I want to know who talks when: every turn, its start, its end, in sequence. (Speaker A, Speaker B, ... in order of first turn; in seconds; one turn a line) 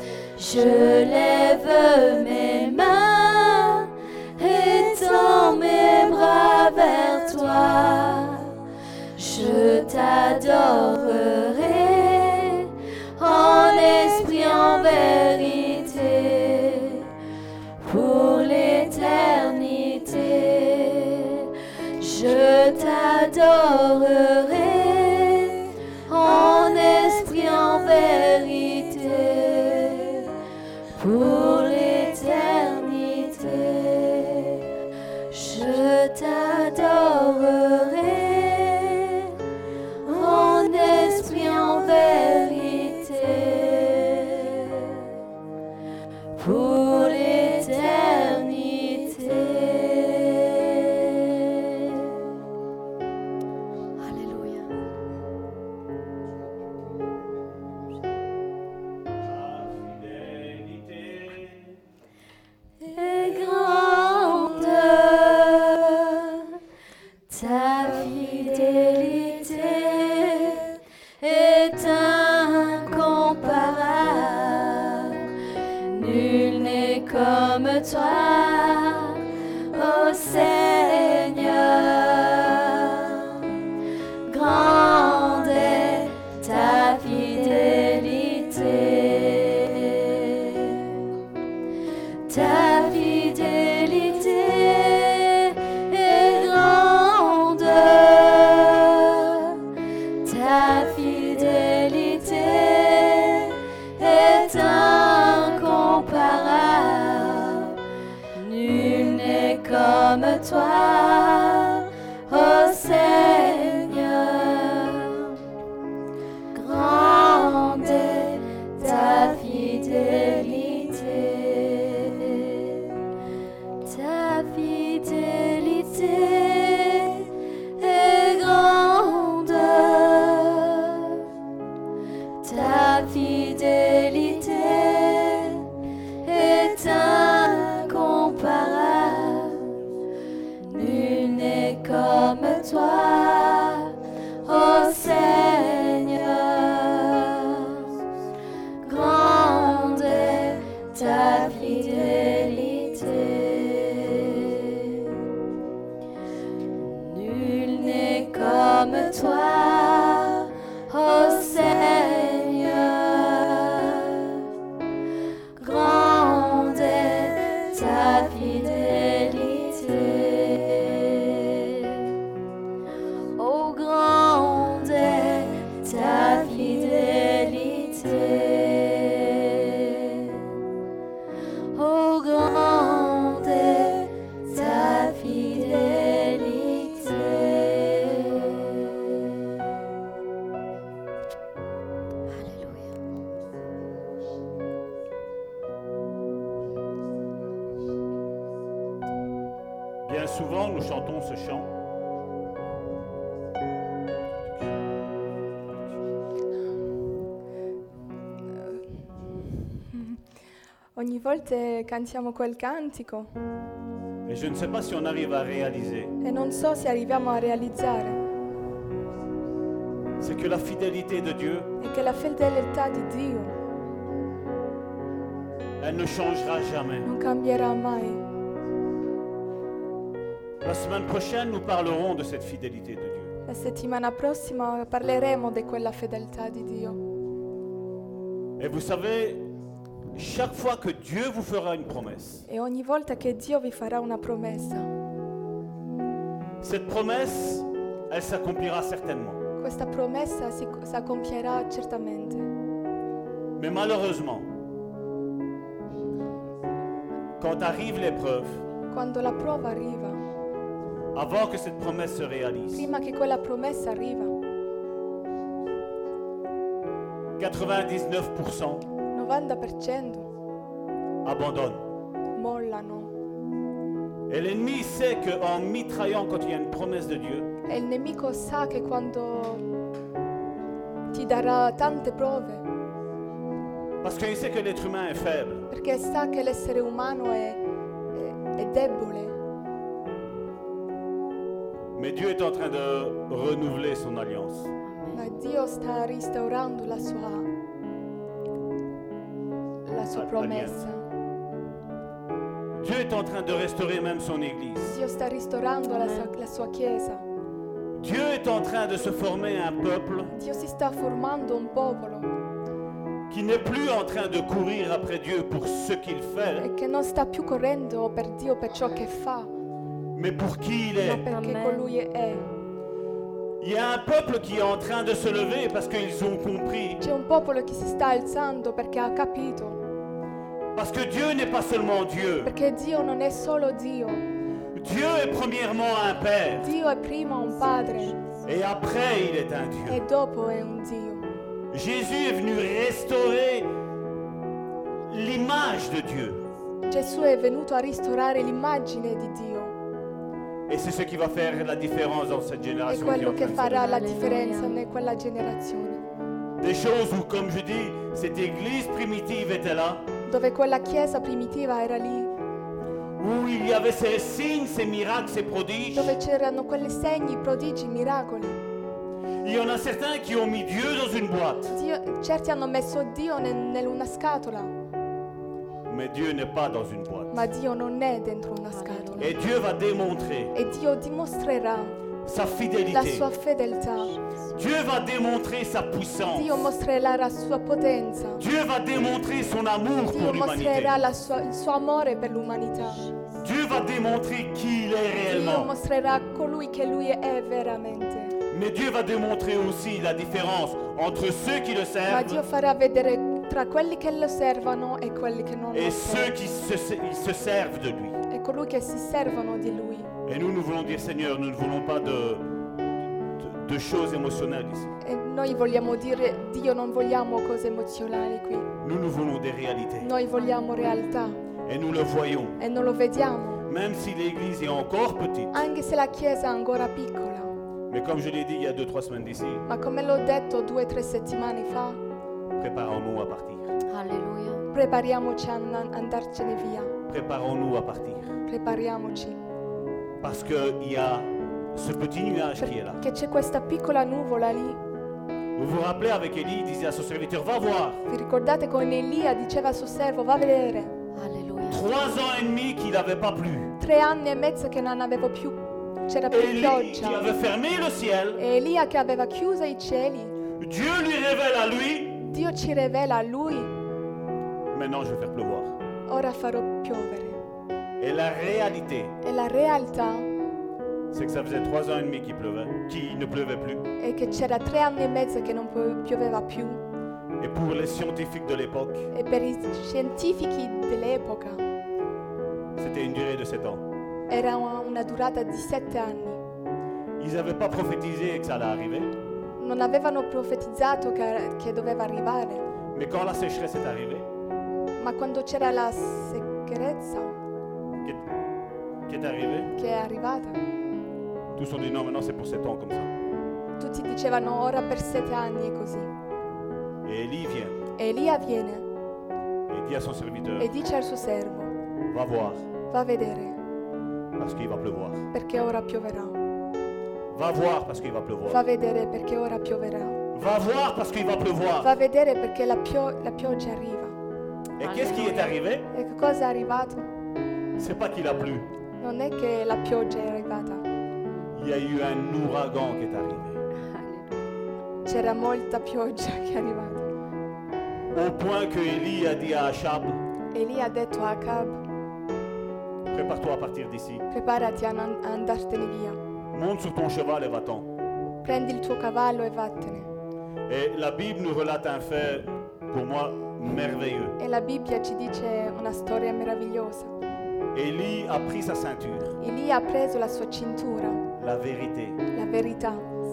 Speaker A: 0.4-8.6
Speaker A: 9.2-17.1
Speaker A: 17.8-30.4
Speaker A: 31.0-34.7
Speaker A: 35.3-39.3
Speaker A: 40.0-45.1
Speaker A: 46.4-52.0
Speaker A: 54.0-54.7
Speaker B: 59.2-61.8
Speaker A: 62.8-66.6
Speaker A: 67.3-83.6
Speaker A: 84.3-91.1
Speaker A: 92.3-99.6
Speaker A: 100.2-107.8
Speaker A: 108.3-115.4
Speaker A: 116.5-122.9
Speaker A: 123.8-131.2
Speaker A: 132.4-135.7
Speaker A: 136.2-139.8
Speaker A: 140.6-147.9
Speaker A: 148.8-155.2
Speaker A: 156.8-164.4
Speaker A: 165.6-172.1
Speaker A: 173.3-180.4
Speaker A: 181.7-189.1
Speaker A: 192.3-192.9
Speaker B: 200.0-201.7
Speaker C: 209.9-210.2
Speaker C: 210.9-213.3
Speaker B: 214.3-216.2
Speaker C: 216.2-218.2
Speaker B: 220.2-221.7
Speaker C: 221.8-223.5
Speaker B: 225.8-227.1
Speaker C: 227.0-228.2
Speaker B: 230.6-233.3
Speaker C: 233.5-237.0
Speaker B: 238.6-239.5
Speaker B: 240.1-242.4
Speaker C: 242.5-244.9
Speaker B: 246.6-249.4
Speaker C: 249.6-252.5
Speaker B: 253.6-254.5
Speaker B: 257.4-258.6
Speaker C: 258.9-260.2
Speaker B: 261.1-262.9
Speaker C: 262.7-264.3
Speaker B: 267.4-268.9
Speaker C: 269.1-270.3
Speaker B: 271.2-271.9
Speaker C: 272.4-273.1
Speaker B: 274.3-277.5
Speaker C: 277.7-279.7
Speaker C: 281.1-282.6
Speaker B: 284.0-285.7
Speaker C: 285.7-287.6
Speaker C: 288.1-289.4
Speaker B: 291.9-294.7
Speaker A: 294.9-295.2
Speaker C: 295.1-297.5
Speaker C: 299.9-301.0
Speaker B: 300.1-300.8
Speaker B: 302.8-305.0
Speaker C: 304.9-307.2
Speaker A: 305.9-306.3
Speaker B: 308.0-310.3
Speaker C: 310.3-312.3
Speaker B: 313.3-316.7
Speaker C: 316.6-319.5
Speaker B: 320.1-321.3
Speaker C: 321.0-322.5
Speaker A: 321.3-321.9
Speaker B: 323.6-327.0
Speaker C: 327.0-329.8
Speaker B: 330.8-332.5
Speaker C: 332.4-334.2
Speaker B: 334.7-336.7
Speaker C: 336.6-338.2
Speaker B: 338.4-340.0
Speaker C: 339.9-341.3
Speaker B: 341.7-343.8
Speaker B: 345.1-346.4
Speaker C: 346.9-349.8
Speaker B: 350.7-353.9
Speaker C: 352.9-356.0
Speaker A: 353.8-354.8
Speaker B: 356.6-360.1
Speaker C: 360.3-362.3
Speaker B: 363.2-366.2
Speaker C: 365.9-368.6
Speaker B: 369.4-371.8
Speaker C: 371.7-374.7
Speaker B: 375.9-377.5
Speaker C: 377.3-379.3
Speaker A: 378.7-379.4
Speaker B: 379.2-380.5
Speaker C: 380.5-382.0
Speaker B: 382.2-383.3
Speaker C: 382.9-384.1
Speaker B: 384.5-386.7
Speaker C: 386.3-388.4
Speaker B: 388.4-390.9
Speaker C: 390.1-393.1
Speaker B: 393.4-395.7
Speaker C: 395.3-398.4
Speaker B: 398.5-402.4
Speaker C: 402.1-406.4
Speaker B: 405.7-408.2
Speaker C: 408.3-410.1
Speaker B: 410.3-412.6
Speaker B: 413.4-414.9
Speaker C: 415.0-418.7
Speaker B: 418.8-420.1
Speaker C: 420.0-421.4
Speaker A: 420.4-421.0
Speaker B: 421.6-422.6
Speaker C: 422.6-423.7
Speaker B: 423.7-425.6
Speaker C: 425.5-427.5
Speaker B: 427.9-429.7
Speaker C: 429.7-432.0
Speaker B: 432.6-433.7
Speaker A: 433.9-434.7
Speaker C: 434.7-436.9
Speaker B: 437.1-438.4
Speaker C: 438.5-439.4
Speaker B: 440.2-443.0
Speaker C: 442.9-444.8
Speaker B: 445.6-448.0
Speaker C: 448.1-450.9
Speaker A: 451.1-451.8
Speaker B: 451.7-453.8
Speaker C: 453.8-457.3
Speaker B: 456.3-458.4
Speaker C: 458.4-460.4
Speaker B: 460.6-462.2
Speaker C: 462.2-463.7
Speaker B: 464.7-465.7
Speaker C: 466.1-467.4
Speaker B: 468.0-469.2
Speaker C: 469.2-470.3
Speaker B: 471.1-473.9
Speaker C: 474.0-476.8
Speaker B: 477.4-479.1
Speaker C: 479.1-481.6
Speaker B: 482.8-483.9
Speaker C: 484.3-486.4
Speaker B: 487.2-489.1
Speaker C: 489.6-492.7
Speaker B: 492.9-494.3
Speaker C: 495.0-497.4
Speaker B: 499.1-499.7
Speaker C: 499.8-500.6
Speaker B: 501.6-503.1
Speaker C: 503.8-506.1
Speaker B: 507.0-507.8
Speaker C: 508.0-508.9
Speaker B: 509.7-510.7
Speaker C: 510.6-511.8
Speaker B: 512.1-512.7
Speaker C: 512.9-513.6
Speaker B: 514.4-515.3
Speaker C: 515.3-516.4
Speaker B: 517.3-518.6
Speaker C: 518.5-520.2
Speaker B: 520.3-521.9
Speaker C: 521.8-524.2
Speaker B: 524.8-525.9
Speaker A: 524.8-525.6
Speaker C: 525.9-527.1
Speaker B: 527.8-528.7
Speaker C: 529.0-530.9
Speaker B: 531.6-533.6
Speaker A: 533.8-534.4
Speaker C: 535.0-537.1
Speaker B: 538.1-540.2
Speaker C: 540.5-541.8
Speaker B: 543.1-544.2
Speaker C: 544.3-546.2
Speaker B: 546.5-547.9
Speaker C: 548.4-550.1
Speaker B: 550.7-554.4
Speaker C: 554.4-557.1
Speaker B: 557.7-559.4
Speaker C: 559.4-561.3
Speaker B: 561.4-562.2
Speaker C: 562.3-563.1